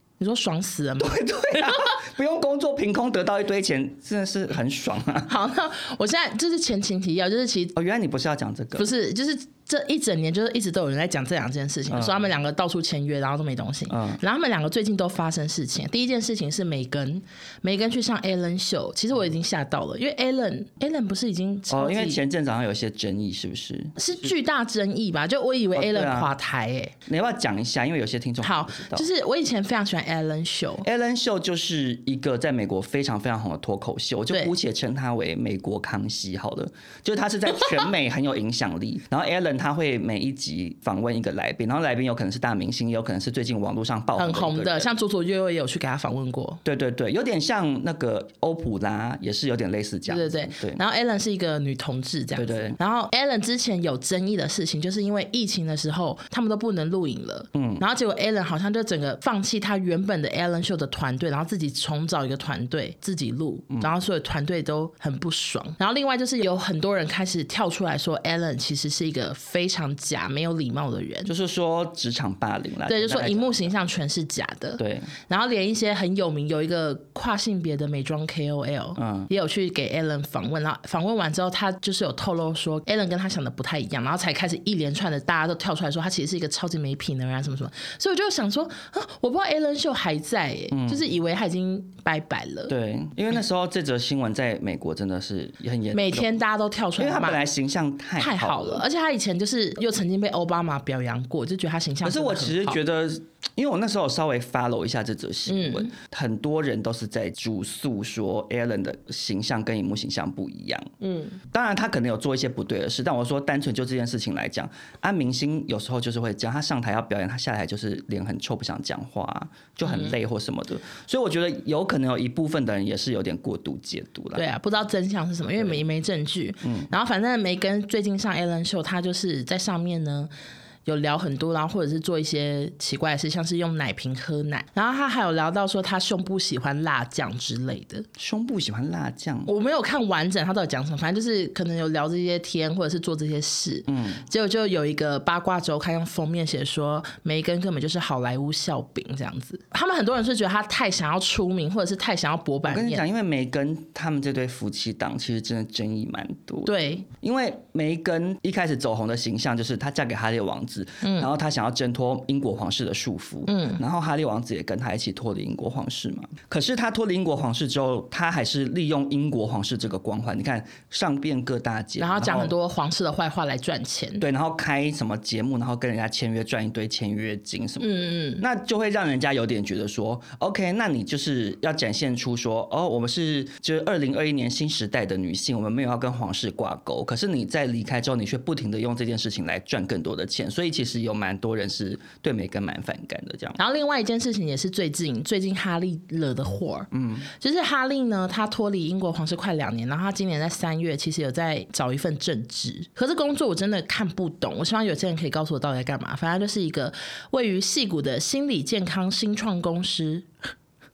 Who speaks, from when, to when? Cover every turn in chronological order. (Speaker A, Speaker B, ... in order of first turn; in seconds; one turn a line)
Speaker A: 0.2-1.9
Speaker B: 1.0-5.3
Speaker A: 5.3-7.7
Speaker B: 7.7-8.9
Speaker A: 8.8-22.2
Speaker B: 11.9-12.3
Speaker B: 13.9-14.2
Speaker B: 21.7-24.3
Speaker A: 24.0-26.9
Speaker B: 25.7-26.3
Speaker B: 27.1-29.1
Speaker A: 28.4-30.8
Speaker B: 30.8-44.9
Speaker A: 44.1-46.6
Speaker B: 46.6-50.8
Speaker A: 50.1-71.3
Speaker B: 52.3-52.8
Speaker B: 57.5-57.8
Speaker B: 71.2-73.8
Speaker A: 72.9-92.7
Speaker B: 74.8-75.1
Speaker B: 79.0-79.3
Speaker B: 90.7-91.0
Speaker B: 92.7-96.4
Speaker A: 95.9-97.4
Speaker B: 97.0-98.8
Speaker A: 98.2-102.8
Speaker B: 102.0-110.9
Speaker A: 105.5-105.9
Speaker A: 111.0-111.4
Speaker B: 111.4-124.5
Speaker A: 119.8-120.1
Speaker A: 124.3-130.3
Speaker B: 126.6-126.9
Speaker A: 130.8-138.1
Speaker B: 138.2-139.5
Speaker A: 139.5-153.0
Speaker B: 143.9-144.2
Speaker B: 152.6-172.5
Speaker A: 156.7-157.1
Speaker A: 161.0-161.3
Speaker A: 163.5-163.8
Speaker A: 172.0-174.2
Speaker B: 174.2-193.6
Speaker A: 177.8-178.4
Speaker A: 193.6-210.3
Speaker B: 196.9-197.3